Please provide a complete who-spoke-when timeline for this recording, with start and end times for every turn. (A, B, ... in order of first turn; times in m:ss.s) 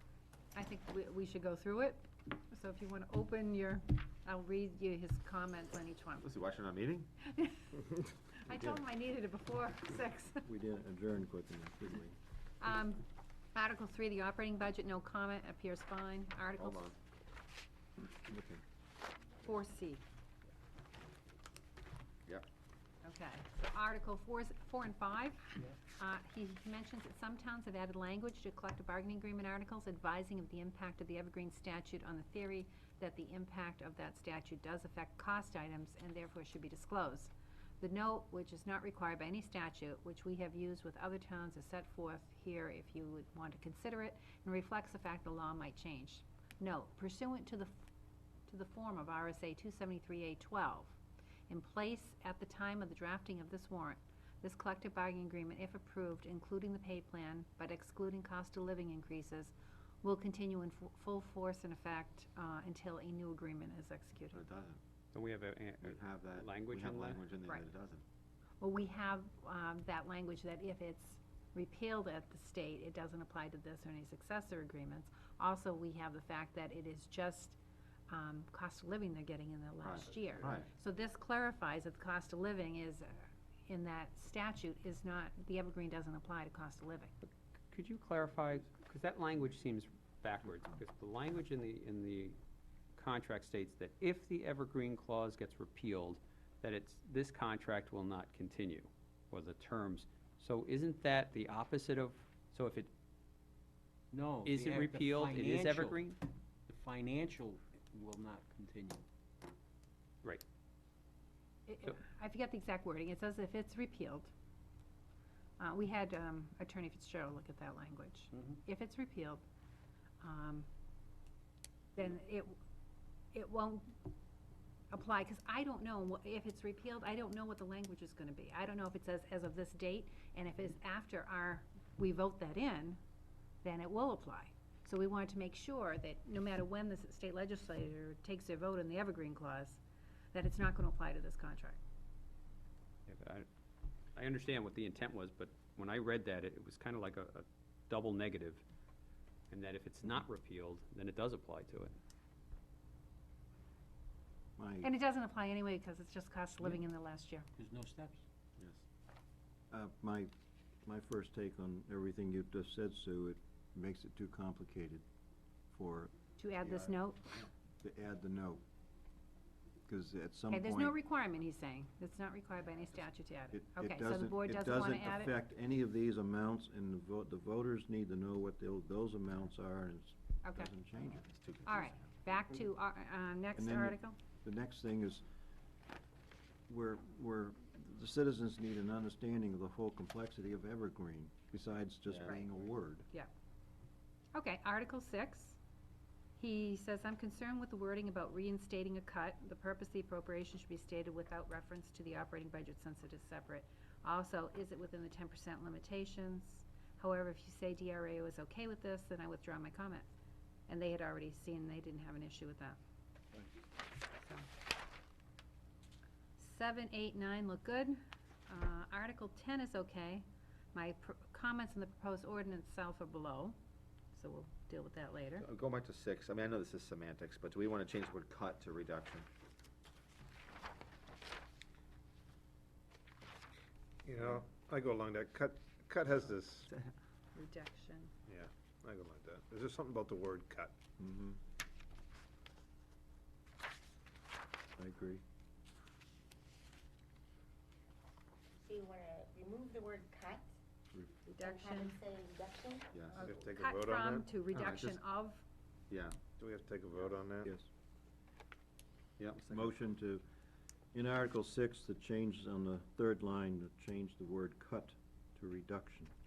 0:00.6-0:06.3 A
0:06.2-0:07.1 B
0:07.2-0:10.5 A
0:10.4-0:12.2 C
0:12.6-0:16.9 A
0:16.6-0:17.0 B
0:18.0-0:18.6 C
0:19.4-0:20.0 A
0:23.0-0:47.8 A
0:48.5-0:51.0 A
0:51.5-1:04.5 A
1:04.3-1:04.8 B
1:05.1-1:07.3 D
1:05.8-1:08.0 B
1:08.6-1:17.6 A
1:18.1-1:27.1 A
1:19.8-1:20.7 B
1:27.2-1:32.4 D
1:33.0-1:42.9 D
1:44.1-1:46.1 E
1:44.4-1:46.2 D
1:46.7-1:49.0 E
1:51.7-1:54.3 A
1:55.6-1:59.4 A
2:00.2-2:00.7 A
2:02.0-2:02.6 A
2:03.3-2:04.0 A
2:04.9-2:13.0 A
2:13.6-2:19.8 A
2:20.3-2:21.8 A
2:23.1-2:23.5 D
2:24.2-2:28.6 D
2:29.5-2:32.0 D
2:34.6-2:34.9 C
2:34.8-2:37.5 A
2:37.6-2:38.2 E
2:38.6-2:38.8 B
2:39.7-2:40.3 C
2:40.8-2:45.0 C
2:45.7-2:46.9 C
2:46.4-2:47.2 A
2:47.8-2:48.6 C
2:49.9-2:51.0 C
2:50.5-2:55.3 A
2:53.5-3:01.3 C
3:00.4-3:00.7 A
3:01.2-3:02.1 B
3:01.6-3:04.2 A
3:03.6-3:05.3 C
3:06.7-3:13.1 C
3:12.1-3:12.3 B
3:14.3-3:15.6 A
3:16.4-3:30.1 A
3:30.7-3:32.8 A
3:34.2-3:34.5 A
3:36.4-3:38.0 A
3:38.5-3:43.6 A
3:44.1-3:45.5 A
3:45.4-3:49.3 B
3:54.0-3:56.7 F
3:57.4-3:58.1 A
3:58.3-4:00.8 F
4:01.0-4:01.4 C
4:04.8-4:05.2 C
4:08.6-4:10.5 G
4:11.3-4:12.0 A
4:11.4-4:13.0 G
4:12.9-4:13.3 B
4:13.1-4:15.4 A
4:13.2-4:14.3 F
4:14.5-4:15.0 B
4:15.9-4:16.2 B
4:16.4-4:17.5 F
4:19.2-4:19.7 B
4:19.4-4:20.2 C
4:20.9-4:26.1 C